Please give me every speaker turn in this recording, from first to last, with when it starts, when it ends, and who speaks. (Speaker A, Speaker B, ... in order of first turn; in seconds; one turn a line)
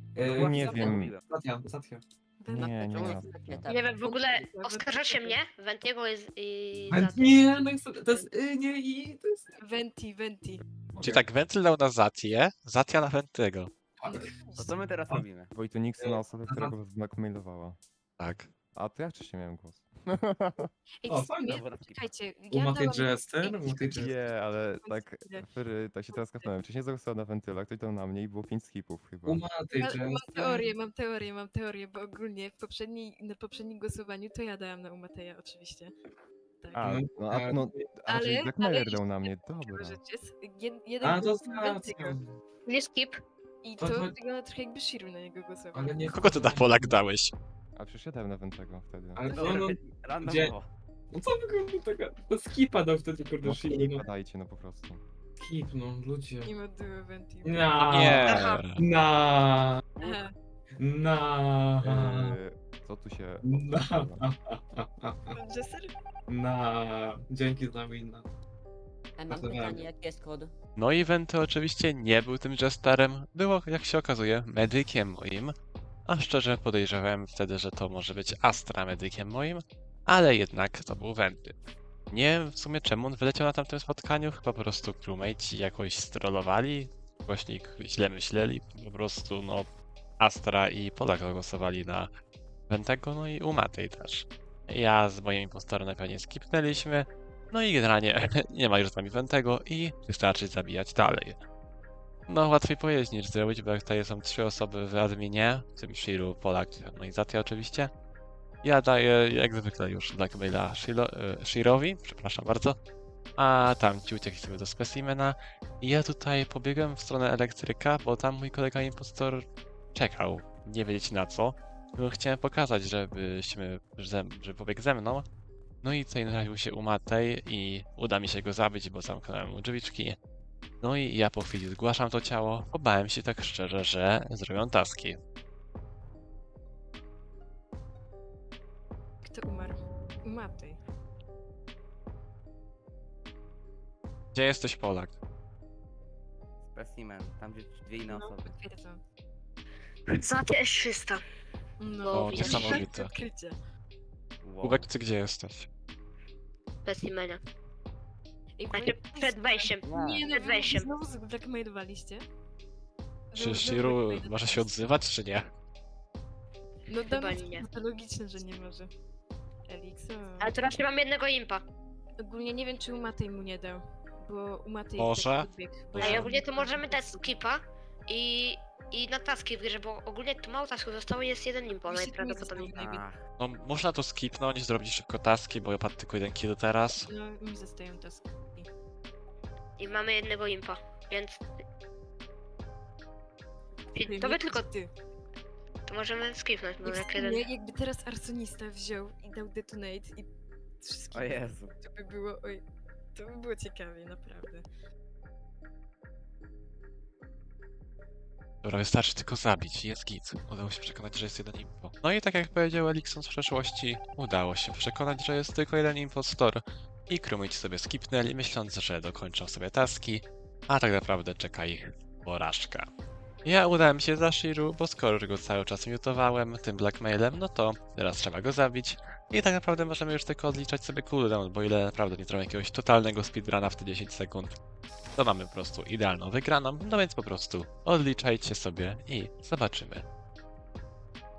Speaker A: 0.1-2.0
Speaker B: 0.2-1.2
Speaker C: 0.2-1.1
Speaker D: 2.4-2.7
Speaker C: 2.5-3.6
Speaker E: 2.5-4.0
Speaker B: 2.8-3.7
Speaker F: 3.7-8.2
Speaker D: 4.0-5.4
Speaker A: 6.9-9.5
Speaker D: 9.6-10.6
Speaker A: 10.9-11.2
Speaker G: 11.0-13.7
Speaker A: 14.0-14.3
Speaker D: 14.1-14.8
Speaker B: 14.6-15.5
Speaker C: 15.5-17.8
Speaker A: 16.0-16.8
Speaker G: 18.2-18.5
Speaker C: 18.7-20.7
Speaker D: 21.0-25.4
Speaker A: 21.1-21.6
Speaker B: 21.5-22.0
Speaker A: 22.5-24.2
Speaker C: 23.9-29.4
Speaker D: 26.1-26.5
Speaker A: 29.2-30.7
Speaker D: 29.8-35.9
Speaker C: 36.7-40.0
Speaker A: 36.8-37.8
Speaker D: 38.1-42.2
Speaker A: 41.0-42.3
Speaker F: 42.6-43.2
Speaker D: 43.6-46.0
Speaker A: 43.8-44.1
Speaker A: 45.7-47.0
Speaker G: 46.1-47.3
Speaker C: 47.8-49.3
Speaker A: 49.1-50.5
Speaker D: 49.3-49.6
Speaker B: 49.3-50.7
Speaker A: 51.1-54.0
Speaker C: 53.4-55.0
Speaker A: 55.4-56.5
Speaker D: 56.4-57.8
Speaker A: 57.4-60.2
Speaker G: 57.8-58.8
Speaker F: 58.2-58.6
Speaker D: 60.0-60.3
Speaker A: 60.8-62.3
Speaker C: 61.8-64.3
Speaker A: 63.4-65.3
Speaker D: 65.3-65.9
Speaker A: 66.3-68.3
Speaker E: 69.2-70.5
Speaker A: 69.3-69.9
Speaker G: 70.8-75.5
Speaker G: 76.0-81.6
Speaker G: 82.1-89.7
Speaker G: 90.2-92.1
Speaker G: 92.7-101.3
Speaker G: 102.3-107.9
Speaker G: 108.6-112.8
Speaker G: 113.3-125.2
Speaker G: 125.8-130.2
Speaker G: 130.8-135.2
Speaker D: 139.2-140.8
Speaker G: 144.3-145.1
Speaker B: 146.6-148.6
Speaker D: 148.0-149.0
Speaker F: 150.1-151.2
Speaker D: 151.8-153.6
Speaker F: 152.0-152.7
Speaker G: 152.1-153.1
Speaker B: 154.4-154.9
Speaker G: 154.6-155.7
Speaker F: 156.8-157.4
Speaker D: 158.6-162.2
Speaker F: 158.7-160.9
Speaker B: 159.8-160.3
Speaker D: 163.3-164.7
Speaker G: 163.3-165.5
Speaker D: 166.9-168.9
Speaker F: 167.0-167.7
Speaker D: 169.7-170.6
Speaker F: 170.4-171.6
Speaker D: 172.2-177.4
Speaker G: 175.0-176.3
Speaker F: 176.0-182.7
Speaker D: 181.8-183.1
Speaker B: 182.7-183.2
Speaker G: 183.4-187.1
Speaker D: 187.0-188.7
Speaker F: 189.8-191.4
Speaker F: 193.9-194.7
Speaker D: 194.0-194.9
Speaker F: 195.8-197.5
Speaker D: 196.8-200.3
Speaker D: 200.8-202.6
Speaker B: 201.1-201.7
Speaker D: 203.1-204.6
Speaker G: 208.6-222.9
Speaker G: 223.4-234.6
Speaker G: 235.1-240.1